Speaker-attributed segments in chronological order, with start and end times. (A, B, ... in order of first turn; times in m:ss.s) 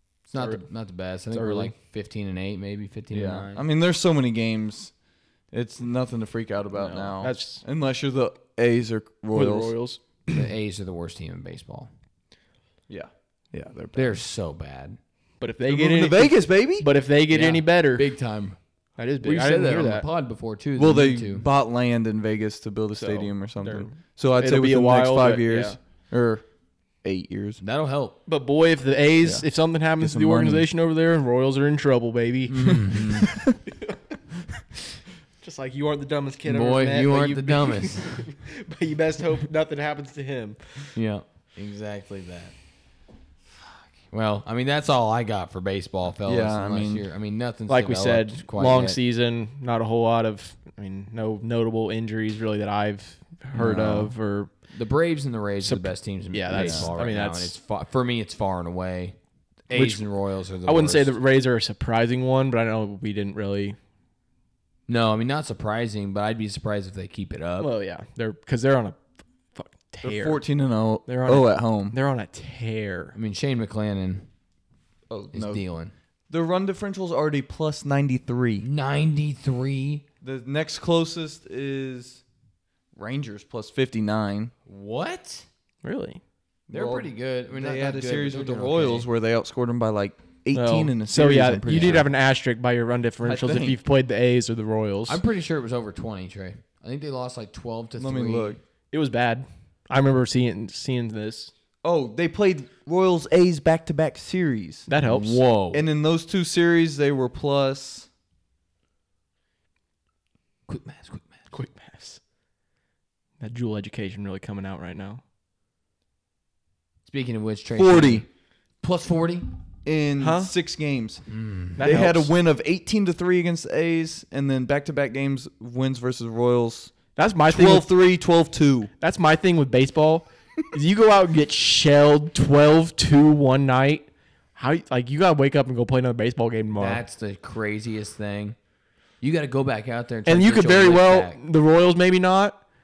0:00.2-0:03.6 A
0:00.4-0:00.6 B
0:01.3-0:01.7 B
0:03.1-0:04.9 C
0:05.5-0:09.7 C
0:06.7-0:07.6 B
0:09.3-0:10.4 B
0:10.3-0:11.9 A
0:12.9-0:14.1 C
0:13.9-0:15.0 A
0:15.4-0:18.1 B
0:15.7-0:16.9 C
0:17.3-0:18.6 A
0:19.0-0:20.0 B
0:19.2-0:21.4 A
0:20.8-0:26.5 C
0:22.9-0:25.8 B
0:27.0-0:27.6 C
0:27.6-0:28.2 A
0:28.2-0:33.2 B
0:29.2-0:30.7 C
0:32.5-0:33.3 A
0:32.6-0:33.5 C
0:35.4-0:40.9 B
0:36.4-0:38.3 A
0:40.9-0:42.5 A
0:44.1-0:49.0 A
0:46.2-0:47.0 C
0:47.7-0:54.5 B
0:53.5-0:54.1 C
0:54.7-1:01.1 A
0:55.6-0:57.5 B
0:56.5-0:56.9 C
0:59.7-1:00.0 B
1:00.6-1:03.8 B
1:04.9-1:07.7 A
1:07.6-1:09.0 B
1:09.5-1:10.4 B
1:10.0-1:12.0 C
1:11.0-1:13.2 B
1:13.1-1:14.3 A
1:15.1-1:15.6 C
1:15.3-1:15.9 A
1:16.3-1:18.6 C
1:18.6-1:20.0 A
1:20.2-1:22.2 C
1:22.9-1:24.5 C
1:24.6-1:25.5 A
1:25.8-1:26.2 B
1:26.7-1:32.1 C
1:26.7-1:29.1 A
1:30.5-1:35.2 B
1:31.7-1:32.0 A
1:33.2-1:33.8 C
1:35.1-1:38.6 A
1:38.0-1:38.6 C
1:38.9-1:41.5 B
1:41.8-1:44.9 C
1:44.9-1:45.4 B
1:45.0-1:45.8 A
1:45.7-1:48.1 C
1:50.7-1:51.4 A
1:51.5-1:52.2 B
1:53.4-1:55.2 B
1:57.0-1:58.3 A
1:57.8-1:58.2 C
1:58.8-1:59.5 A
1:59.8-2:06.9 C
2:00.2-2:00.5 B
2:01.3-2:01.8 A
2:01.8-2:02.3 B
2:07.2-2:07.9 B
2:07.4-2:08.9 C
2:09.0-2:17.0 B
2:16.7-2:18.6 A
2:19.2-2:21.4 A
2:20.2-2:22.6 B